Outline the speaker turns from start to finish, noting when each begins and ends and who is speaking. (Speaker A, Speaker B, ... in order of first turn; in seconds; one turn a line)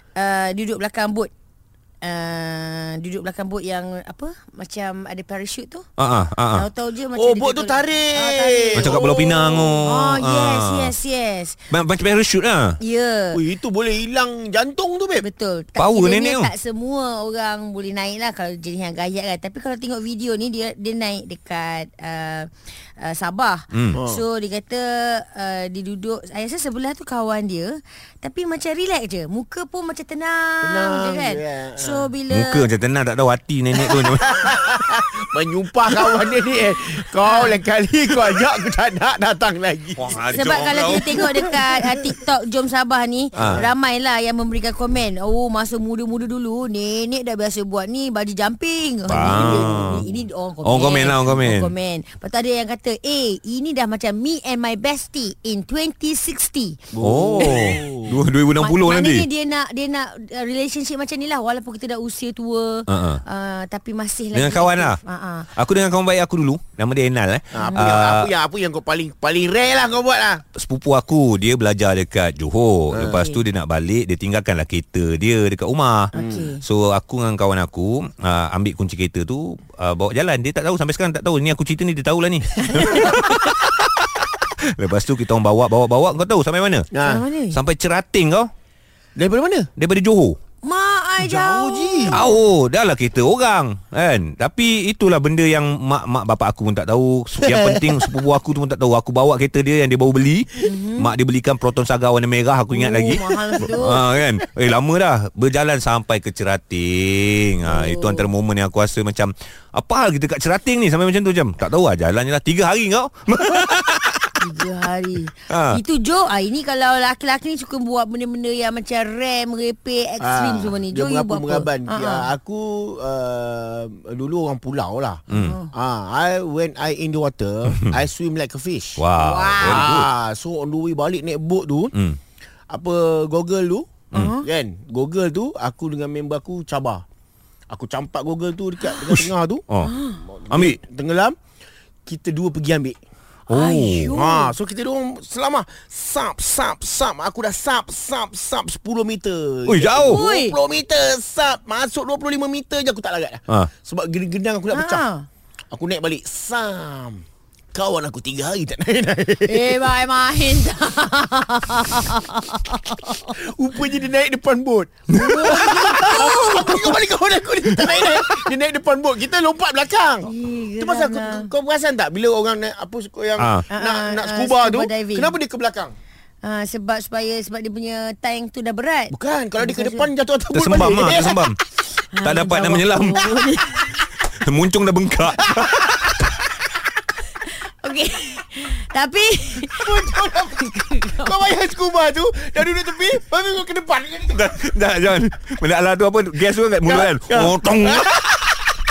Speaker A: 0.2-1.3
Speaker A: 2.0-5.8
Speaker B: 6.0-6.7
Speaker A: 6.5-11.6
Speaker C: 7.1-9.8
Speaker B: 8.8-10.9
Speaker B: 11.7-12.8
Speaker A: 12.8-13.4
Speaker C: 13.3-15.3
Speaker A: 15.2-32.7
Speaker B: 15.8-16.5
Speaker B: 23.7-24.0
Speaker C: 24.0-24.2
Speaker C: 30.6-32.1
Speaker B: 32.3-34.4
Speaker C: 33.9-40.2
Speaker A: 37.2-37.6
Speaker B: 40.0-41.1
Speaker A: 40.2-56.8
Speaker B: 43.4-43.6
Speaker B: 49.1-50.0
Speaker C: 49.3-49.8
Speaker B: 50.6-51.7
Speaker C: 57.0-58.2
Speaker B: 57.0-59.3
Speaker A: 58.6-65.5
Speaker B: 62.9-63.2
Speaker B: 64.3-65.0
Speaker B: 65.5-68.3
Speaker C: 67.5-70.4
Speaker A: 67.6-68.0
Speaker B: 70.5-76.1
Speaker C: 72.9-73.2
Speaker A: 76.2-76.6
Speaker C: 76.2-76.5
Speaker B: 76.6-86.9
Speaker C: 86.9-87.2
Speaker A: 87.0-87.6
Speaker B: 87.5-88.5
Speaker C: 89.2-89.7
Speaker B: 89.8-90.4
Speaker A: 90.6-92.3
Speaker C: 91.2-92.2
Speaker B: 92.1-114.3
Speaker C: 97.4-98.1
Speaker A: 100.6-101.1
Speaker A: 102.7-104.0
Speaker A: 107.7-108.3
Speaker A: 114.4-122.3
Speaker B: 115.5-115.8
Speaker C: 120.2-129.0
Speaker B: 125.3-125.6
Speaker A: 125.3-125.7
Speaker B: 129.0-130.1
Speaker A: 129.2-129.8
Speaker C: 129.6-131.9
Speaker C: 132.7-137.0
Speaker A: 134.1-134.4
Speaker C: 137.7-139.6
Speaker B: 139.2-139.9
Speaker A: 139.8-140.2
Speaker C: 140.2-141.4
Speaker C: 142.1-143.0
Speaker B: 143.5-144.1
Speaker A: 143.5-144.5
Speaker C: 144.1-155.0
Speaker B: 149.7-150.2
Speaker A: 150.1-150.6
Speaker A: 154.7-155.3
Speaker C: 155.7-159.9
Speaker A: 159.5-163.3
Speaker C: 163.3-175.9
Speaker A: 165.1-167.0
Speaker A: 170.3-171.5
Speaker A: 173.7-175.4
Speaker A: 176.4-180.1
Speaker C: 179.1-181.4
Speaker B: 180.5-181.6
Speaker A: 182.1-184.0
Speaker B: 182.2-183.3
Speaker B: 184.4-186.1
Speaker A: 187.8-190.0
Speaker C: 189.8-194.4
Speaker A: 191.0-191.3
Speaker B: 194.3-198.5
Speaker C: 196.9-198.0